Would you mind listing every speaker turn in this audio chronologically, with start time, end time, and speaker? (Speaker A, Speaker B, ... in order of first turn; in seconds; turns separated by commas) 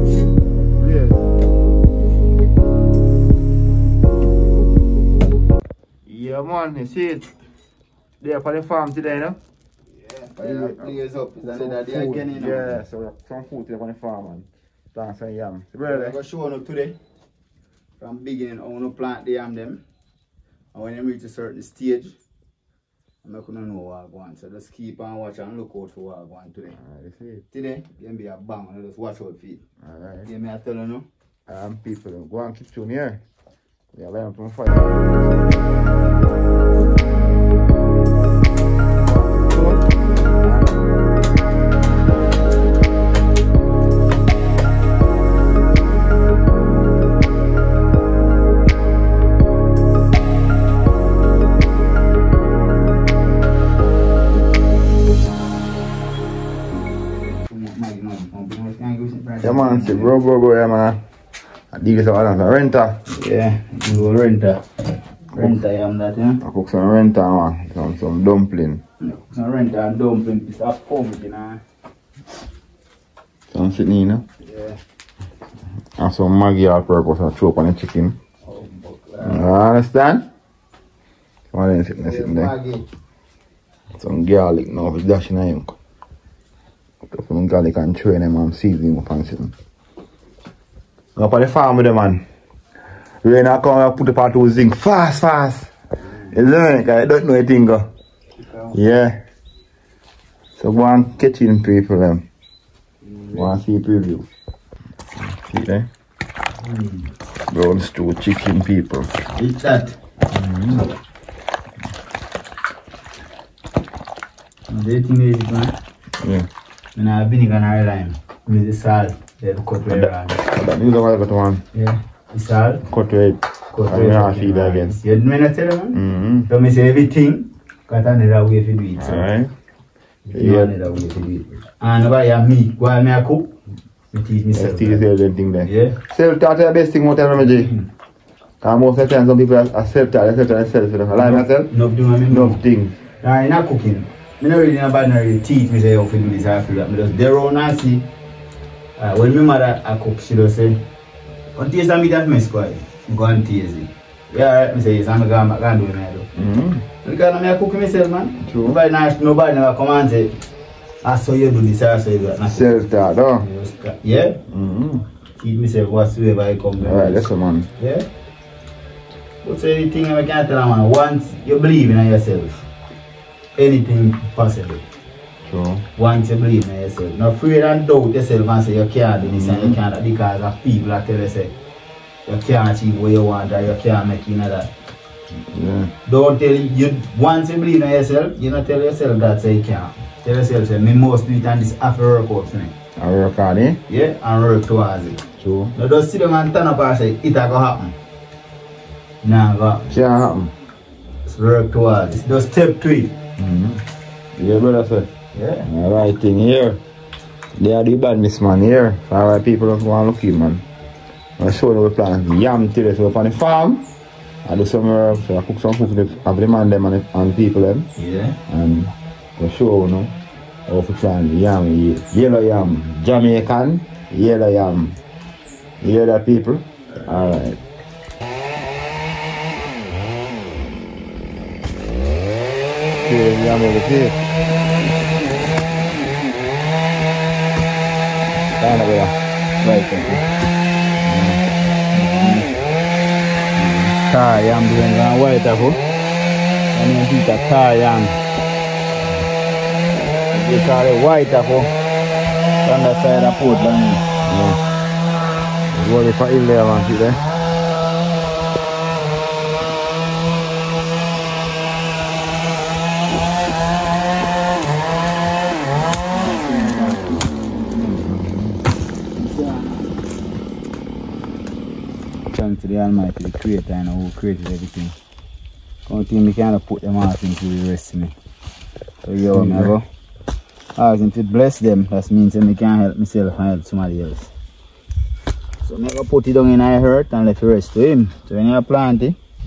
Speaker A: 0.8-1.2, Speaker A: 6.0-7.4, Speaker A: 8.2-9.4, Speaker B: 9.9-12.8, Speaker A: 10.4-16.2, Speaker B: 15.8-17.0, Speaker B: 18.0-19.8, Speaker B: 20.7-22.2, Speaker B: 23.2-26.8, Speaker A: 26.7-27.5, Speaker B: 27.5-29.6, Speaker A: 29.8-30.3, Speaker B: 30.2-31.1, Speaker A: 31.5-33.2, Speaker A: 33.9-35.8, Speaker A: 38.9-40.8, Speaker B: 57.5-60.1, Speaker A: 59.4-61.0, Speaker A: 61.7-63.0, Speaker B: 63.1-64.7, Speaker B: 65.3-66.4, Speaker A: 65.3-65.6, Speaker A: 66.4-68.8, Speaker B: 69.0-71.6, Speaker A: 73.5-74.3, Speaker B: 74.4-74.8, Speaker A: 76.0-78.2, Speaker B: 78.4-79.5, Speaker A: 79.2-80.3, Speaker A: 81.5-82.5, Speaker B: 82.0-82.9, Speaker A: 84.0-85.8, Speaker A: 87.0-89.5, Speaker A: 91.2-92.2, Speaker A: 93.2-95.7, Speaker B: 96.0-96.4, Speaker A: 96.3-97.9, Speaker B: 98.4-98.8, Speaker A: 98.7-99.2, Speaker A: 100.6-102.3, Speaker B: 103.0-103.6, Speaker A: 103.3-104.3, Speaker A: 105.2-105.9, Speaker B: 106.6-107.1, Speaker A: 107.5-109.1, Speaker B: 109.3-110.0, Speaker A: 110.3-110.9, Speaker B: 114.7-115.8, Speaker A: 116.2-116.5, Speaker B: 117.0-120.4, Speaker A: 119.9-121.6, Speaker B: 121.7-122.9, Speaker A: 122.9-125.0, Speaker B: 123.7-129.3, Speaker A: 125.9-126.5, Speaker A: 129.0-129.5, Speaker B: 130.3-133.5, Speaker A: 130.3-130.7, Speaker B: 134.1-135.1, Speaker A: 134.5-137.7, Speaker B: 135.6-136.0, Speaker B: 137.4-137.9, Speaker A: 138.6-141.7, Speaker B: 141.2-142.6, Speaker A: 142.3-143.0, Speaker B: 143.2-148.1, Speaker B: 149.0-150.8, Speaker B: 151.6-156.3, Speaker A: 156.4-156.9, Speaker B: 157.0-160.3, Speaker A: 158.4-158.8, Speaker B: 161.0-162.8, Speaker A: 162.5-163.4, Speaker B: 163.4-164.4, Speaker A: 164.5-165.1, Speaker B: 165.4-168.1, Speaker A: 166.8-167.7, Speaker B: 169.4-172.7, Speaker B: 173.6-174.8, Speaker A: 175.4-175.9, Speaker B: 175.9-181.6, Speaker A: 179.2-179.8, Speaker B: 182.3-184.7, Speaker A: 185.5-185.9, Speaker B: 186.1-192.8, Speaker A: 193.0-193.8, Speaker B: 193.9-195.2, Speaker A: 195.4-195.7, Speaker B: 195.8-197.9, Speaker B: 199.2-199.9, Speaker A: 199.9-200.5, Speaker B: 201.3-203.2, Speaker A: 203.4-203.8, Speaker A: 204.4-205.1, Speaker B: 205.3-205.7, Speaker A: 205.7-206.8, Speaker A: 207.6-210.7, Speaker A: 211.4-213.9, Speaker A: 214.4-217.9, Speaker B: 218.0-218.4, Speaker A: 218.5-220.2, Speaker A: 220.7-225.0, Speaker A: 225.8-227.6, Speaker A: 233.0-234.2, Speaker A: 238.6-239.2, Speaker B: 239.6-240.3, Speaker A: 241.0-241.4, Speaker B: 241.9-242.5, Speaker B: 243.8-245.8, Speaker B: 246.7-248.2, Speaker B: 250.3-251.7, Speaker B: 252.6-254.0, Speaker A: 254.2-254.6, Speaker A: 255.7-257.2, Speaker B: 265.9-268.1, Speaker A: 268.0-268.6, Speaker B: 269.1-270.0, Speaker B: 272.3-274.9, Speaker B: 275.9-278.1, Speaker B: 279.0-279.9, Speaker A: 279.3-279.8, Speaker B: 280.8-284.3, Speaker B: 285.6-289.2